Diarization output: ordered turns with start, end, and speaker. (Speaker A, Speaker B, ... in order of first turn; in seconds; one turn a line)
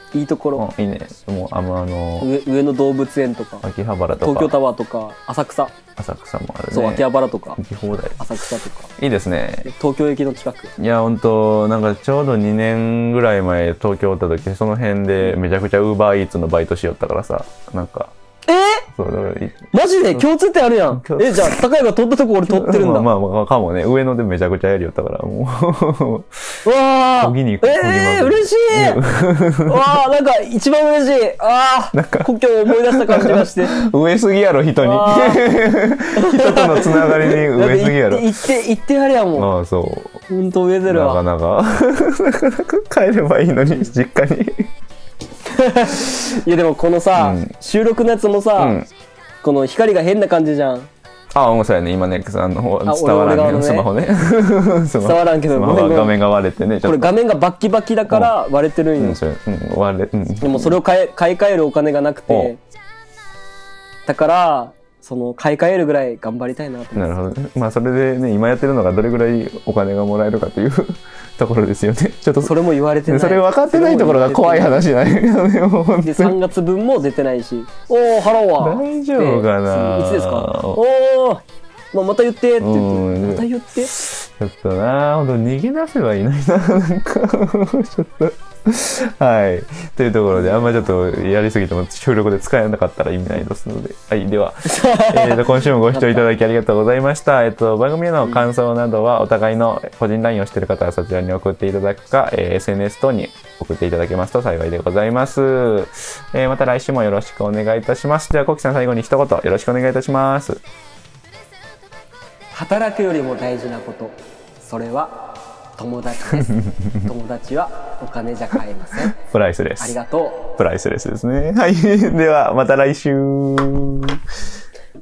Speaker A: 0.1-0.7
Speaker B: 0.6-2.3
Speaker A: 2.2-3.6
Speaker B: 3.6-4.5
Speaker A: 4.2-5.7
Speaker B: 6.0-8.2
Speaker A: 6.7-7.6
Speaker A: 8.2-8.9
Speaker B: 9.0-9.7
Speaker A: 9.7-10.7
Speaker B: 10.8-18.1
Speaker A: 18.5-18.9
Speaker B: 18.9-20.3
Speaker A: 19.7-23.1
Speaker B: 20.9-21.6
Speaker B: 22.5-26.4
Speaker A: 26.6-29.0
Speaker B: 27.2-29.9
Speaker A: 29.6-33.8
Speaker B: 31.9-38.3
Speaker A: 34.8-35.5
Speaker A: 36.1-39.5
Speaker B: 39.4-40.2
Speaker A: 40.3-41.2
Speaker B: 40.9-44.7
Speaker A: 45.5-48.8
Speaker B: 47.2-47.5
Speaker B: 48.6-48.9
Speaker A: 49.4-50.9
Speaker B: 51.3-57.1
Speaker A: 52.9-53.9
Speaker A: 55.0-56.2
Speaker A: 56.8-59.2
Speaker B: 59.0-60.8
Speaker A: 60.4-62.6
Speaker A: 64.1-67.1
Speaker B: 67.0-72.5
Speaker A: 72.4-74.7
Speaker B: 73.1-76.4
Speaker A: 76.0-83.9
Speaker B: 78.6-80.8
Speaker B: 82.6-110.6
Speaker A: 90.3-90.8
Speaker A: 94.7-96.2
Speaker A: 112.5-115.2
Speaker A: 115.8-119.2
Speaker B: 116.4-117.1
Speaker B: 119.1-120.0
Speaker A: 119.8-120.5
Speaker B: 120.6-124.2